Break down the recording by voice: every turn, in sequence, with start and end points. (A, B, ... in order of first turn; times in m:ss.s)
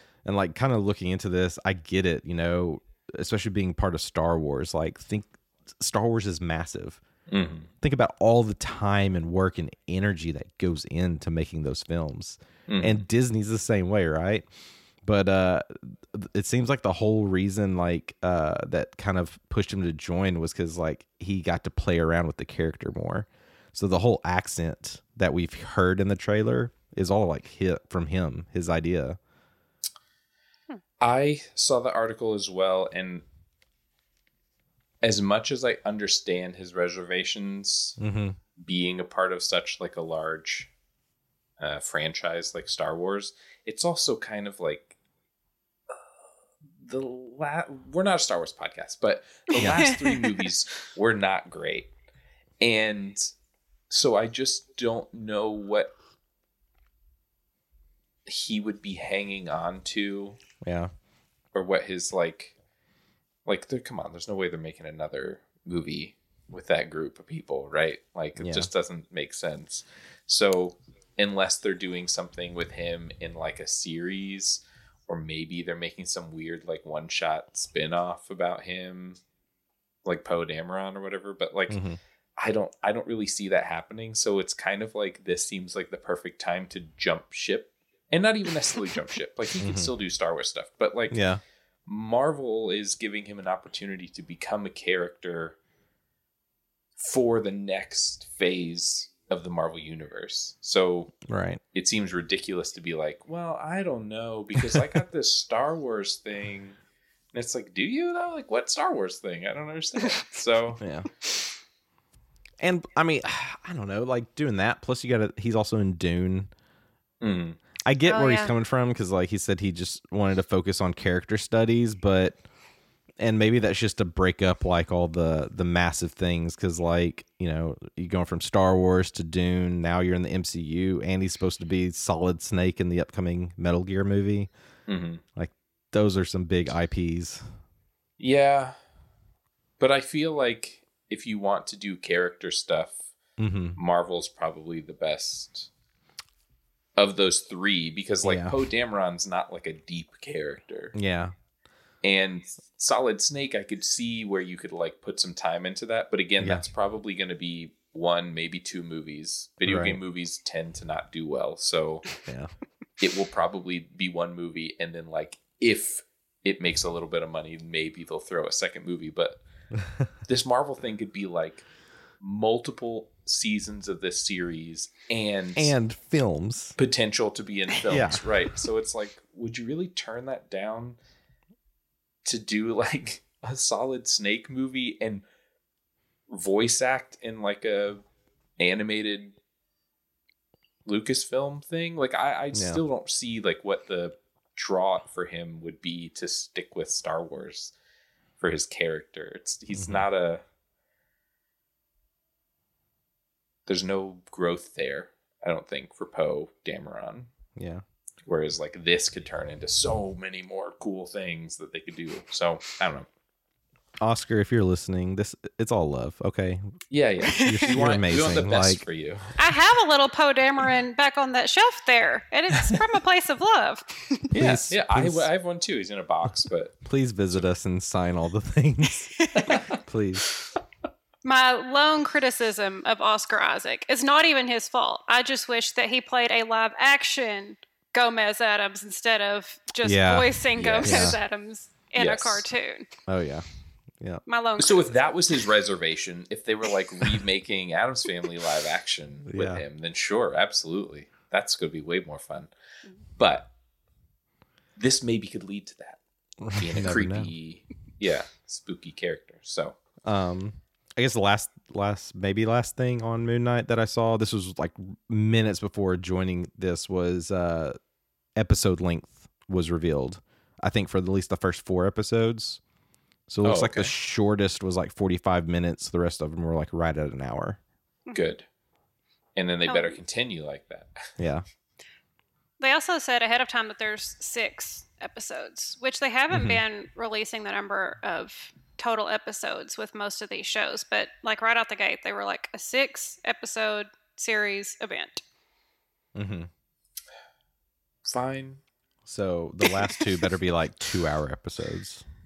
0:00.2-0:07.0 A
0:07.3-0:07.7 B
0:07.8-0:14.4 A
0:12.7-0:13.0 B
0:15.0-0:29.2 A
0:31.0-0:33.2 B
0:35.0-0:38.0 B
0:38.0-0:38.4 A
0:38.6-0:40.7 B
0:41.6-0:45.0 B
0:46.8-0:51.9 B
0:49.5-0:50.4 C
0:49.6-0:49.8 A
0:52.6-0:53.3 B
0:53.9-0:55.9 B
0:58.2-1:00.4 B
1:00.6-1:00.9 A
1:01.5-1:02.5 B
1:03.4-1:19.2 B
1:08.4-1:08.7 A
1:20.0-1:21.8 B
1:21.7-1:22.0 A
1:22.4-1:31.2 B
1:29.6-1:29.9 A
1:31.1-1:31.4 A
1:31.8-1:35.6 B
1:37.0-1:41.1 B
1:41.2-1:41.6 A
1:41.7-1:46.8 B
1:47.3-1:50.8 B
1:50.8-1:51.1 A
1:52.6-1:56.5 A
1:57.2-1:57.6 B
1:57.8-2:02.4 A
1:58.0-1:58.5 C
2:03.2-2:14.5 A
2:14.9-2:15.2 B
2:15.3-2:17.6 A
2:18.2-2:18.8 B
2:19.8-2:23.1 B
2:23.4-2:23.8 A
2:23.8-2:25.7 B
2:27.0-2:30.9 B
2:28.2-2:28.5 A
2:30.9-2:31.3 A
2:32.0-2:42.1 B
2:36.4-2:36.6 A
2:39.6-2:40.0 A
2:42.2-2:42.5 A
2:43.0-2:49.4 B
2:50.2-2:51.7 B
2:52.2-2:55.7 B
2:55.6-2:56.8 A
2:56.8-3:01.0 B
2:57.9-2:58.2 A
3:02.2-3:05.2 B
3:06.3-3:08.0 B
3:08.6-3:09.4 B
3:10.8-3:17.7 B
3:12.5-3:12.8 A
3:18.4-3:20.4 B
3:19.7-3:20.0 A
3:23.7-3:27.3 B
3:27.6-3:27.8 A
3:28.2-3:33.1 B
3:34.0-3:36.7 A
3:36.9-3:39.4 B
3:37.3-3:37.7 C
3:37.4-3:38.8 A
3:39.4-3:44.2 C
3:44.3-3:46.8 B
3:44.3-3:45.3 A
3:46.8-3:49.1 A
3:49.2-3:49.5 C
3:49.4-3:49.7 B
3:49.7-3:50.2 A
3:51.2-4:02.9 C
3:59.8-4:00.3 A
4:00.6-4:01.2 B
4:00.8-4:01.2 A
4:02.0-4:02.4 B
4:03.1-4:03.5 A
4:04.3-4:05.1 C
4:04.6-4:12.5 B
4:09.3-4:09.6 A
4:13.2-4:13.5 B
4:14.8-4:16.0 B
4:16.4-4:17.3 A
4:16.5-4:19.8 B
4:20.0-4:27.8 A
4:28.4-4:32.6 A
4:33.3-4:37.6 A
4:33.4-4:33.9 B
4:38.1-4:38.4 B
4:39.4-4:41.0 B
4:39.6-4:40.0 C
4:41.2-4:41.4 A
4:42.6-4:55.2 C
4:46.3-4:46.6 A
4:56.1-4:56.5 A
4:58.0-4:58.6 B
4:59.0-5:02.0 A